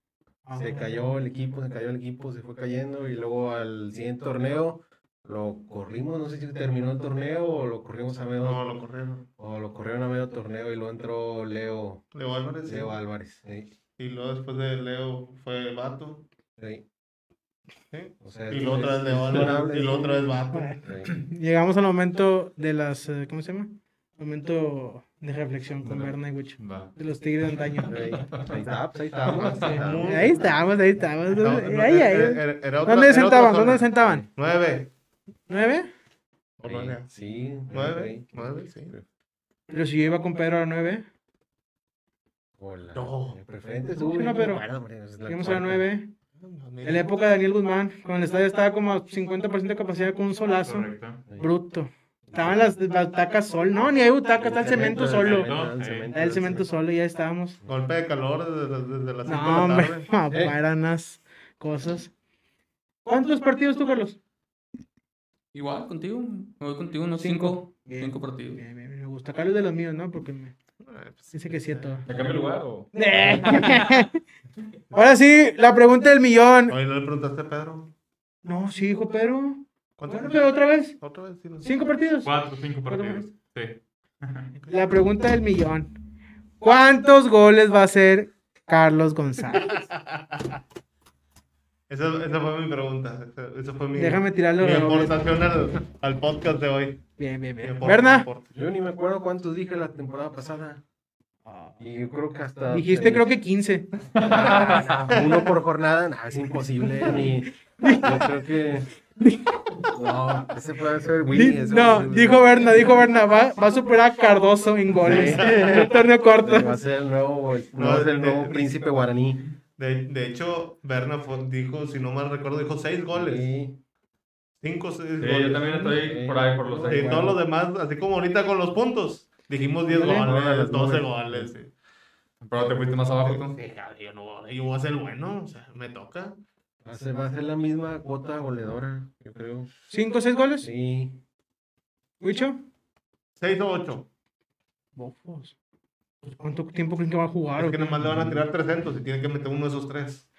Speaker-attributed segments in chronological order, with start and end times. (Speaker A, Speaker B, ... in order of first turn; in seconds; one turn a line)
Speaker A: 0.5-1.2
Speaker B: 0.5-8.7
Speaker C: 8.4-9.3
Speaker B: 9.4-12.0
Speaker C: 12.1-13.0
Speaker B: 12.6-13.7
Speaker C: 14.0-16.2
Speaker B: 16.6-16.8
Speaker C: 17.9-20.8
Speaker B: 18.2-21.1
Speaker A: 20.5-28.0
Speaker D: 26.6-26.9
Speaker D: 27.8-28.5
Speaker B: 27.9-30.4
Speaker C: 29.2-30.5
Speaker A: 29.5-34.2
Speaker C: 31.3-34.9
Speaker B: 34.0-34.2
Speaker A: 35.5-35.9
Speaker C: 36.6-38.9
Speaker B: 36.6-39.0
Speaker A: 39.7-41.0
Speaker B: 42.6-45.9
Speaker C: 42.9-43.4
Speaker A: 44.1-44.6
Speaker A: 45.2-46.1
Speaker C: 46.4-47.1
Speaker A: 46.8-55.5
Speaker E: 50.6-51.2
Speaker B: 52.3-52.7
Speaker B: 54.3-56.7
Speaker E: 55.2-56.1
Speaker A: 56.1-57.6
Speaker C: 57.6-60.1
Speaker A: 59.2-62.1
Speaker B: 60.3-60.5
Speaker A: 63.0-64.2
Speaker F: 65.5-68.6
Speaker A: 67.2-70.5
Speaker C: 70.8-72.0
Speaker A: 71.3-72.0
Speaker D: 72.0-74.0
Speaker A: 72.9-74.2
Speaker A: 74.9-76.8
Speaker C: 76.7-77.9
Speaker A: 78.4-81.0
Speaker C: 80.0-81.7
Speaker A: 81.6-82.3
Speaker E: 82.2-84.5
Speaker A: 82.9-83.2
Speaker A: 84.7-85.9
Speaker A: 86.6-89.8
Speaker C: 89.6-90.6
Speaker C: 91.9-97.0
Speaker A: 93.9-95.2
Speaker A: 97.2-98.3
Speaker C: 97.6-98.5
Speaker B: 98.5-100.8
Speaker A: 101.5-101.7
Speaker B: 101.8-103.3
Speaker A: 102.7-103.9
Speaker B: 104.2-108.9
Speaker D: 104.3-104.8
Speaker C: 105.1-105.4
Speaker A: 107.8-108.2
Speaker A: 109.2-109.8
Speaker B: 109.9-112.8
Speaker A: 111.3-116.8
Speaker B: 115.0-119.4
Speaker C: 117.8-118.8
Speaker C: 119.8-123.5
Speaker B: 123.1-123.8
Speaker C: 124.6-125.8
Speaker D: 125.2-127.3
Speaker B: 125.7-127.4
Speaker C: 126.9-131.7
Speaker A: 129.9-130.3
Speaker B: 129.9-131.5
Speaker D: 132.4-133.6
Speaker C: 132.7-136.4
Speaker B: 136.8-139.7
Speaker A: 139.9-140.7
Speaker B: 140.6-141.2
Speaker A: 142.2-142.6
Speaker C: 143.4-144.1
Speaker A: 144.9-145.5
Speaker A: 146.2-148.0
Speaker C: 147.5-150.2